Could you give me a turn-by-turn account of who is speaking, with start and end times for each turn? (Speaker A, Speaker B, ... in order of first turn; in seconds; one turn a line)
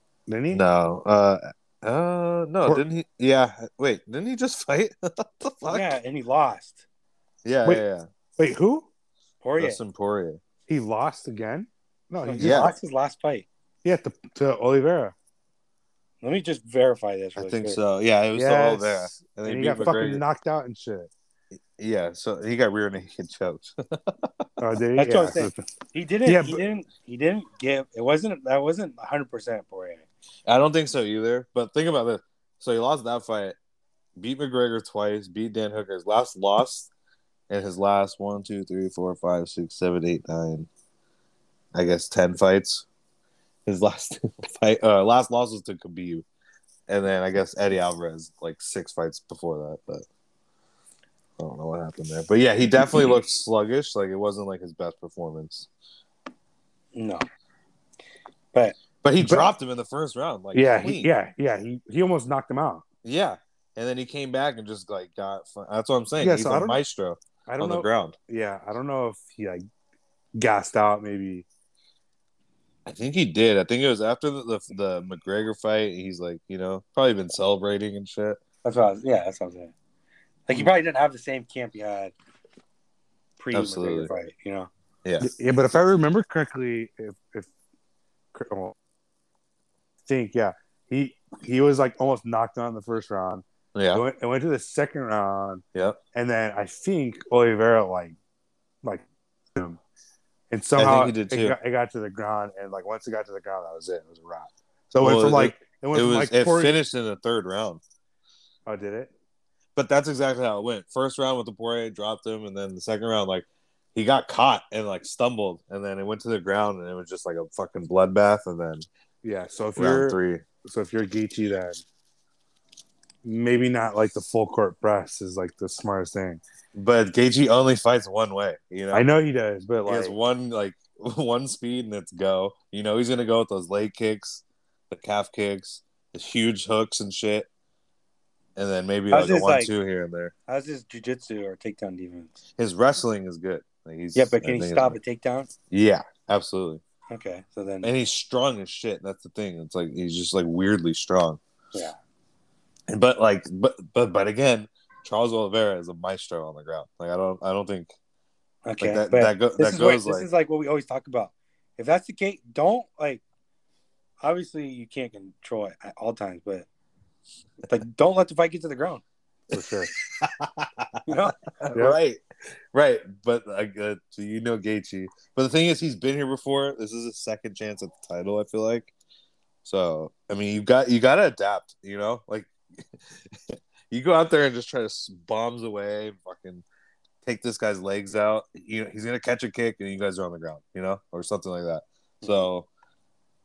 Speaker A: 0.3-0.6
Speaker B: 0.5-5.9
Speaker C: 5.7-6.8
Speaker B: 7.5-8.1
Speaker A: 8.4-8.9
Speaker C: 9.4-9.8
Speaker B: 9.6-10.4
Speaker A: 10.7-12.7
Speaker C: 12.3-13.5
Speaker B: 12.4-12.8
Speaker A: 13.8-15.2
Speaker C: 16.2-17.8
Speaker B: 17.4-20.2
Speaker A: 18.3-21.1
Speaker B: 21.8-24.4
Speaker A: 24.6-25.7
Speaker C: 25.0-30.1
Speaker A: 26.2-26.6
Speaker B: 30.5-33.6
Speaker B: 34.2-36.9
Speaker B: 37.5-40.7
Speaker B: 41.7-42.9
Speaker B: 43.7-46.2
Speaker B: 46.9-50.1
Speaker B: 51.4-55.7
Speaker C: 56.9-57.2
Speaker C: 58.5-58.8
Speaker B: 59.0-61.1
Speaker A: 59.2-59.5
Speaker A: 60.5-62.8
Speaker B: 63.0-68.2
Speaker A: 66.2-66.8
Speaker A: 67.5-69.6
Speaker A: 70.4-71.5
Speaker B: 72.9-78.4
Speaker C: 78.6-79.7
Speaker C: 80.5-82.1
Speaker C: 83.4-84.7
Speaker B: 83.5-84.1
Speaker B: 85.0-85.3
Speaker A: 85.2-87.5
Speaker A: 88.3-88.8
Speaker A: 90.1-95.6
Speaker B: 93.7-94.0
Speaker A: 96.1-98.2
Speaker A: 98.8-99.8
Speaker A: 100.5-106.8
Speaker B: 100.8-101.5
Speaker B: 105.0-107.8
Speaker A: 108.7-109.1
Speaker B: 109.8-118.8
Speaker A: 119.2-121.8
Speaker B: 119.8-120.5
Speaker A: 123.2-126.4
Speaker B: 126.7-129.1
Speaker A: 128.9-130.2
Speaker B: 129.9-137.5
Speaker B: 138.6-140.3
Speaker C: 139.1-139.7
Speaker C: 140.5-142.4
Speaker B: 142.6-145.0
Speaker C: 144.2-145.5
Speaker B: 145.7-146.8
Speaker C: 147.1-147.9
Speaker B: 147.8-151.4
Speaker B: 152.9-157.9
Speaker C: 158.7-163.2
Speaker B: 158.8-160.3
Speaker C: 164.2-166.7
Speaker C: 167.7-169.0
Speaker A: 169.5-169.9
Speaker B: 170.1-172.2
Speaker C: 171.1-171.5
Speaker B: 172.7-178.9
Speaker B: 179.6-182.5
Speaker B: 183.1-186.7
Speaker B: 187.2-192.7
Speaker C: 192.2-192.5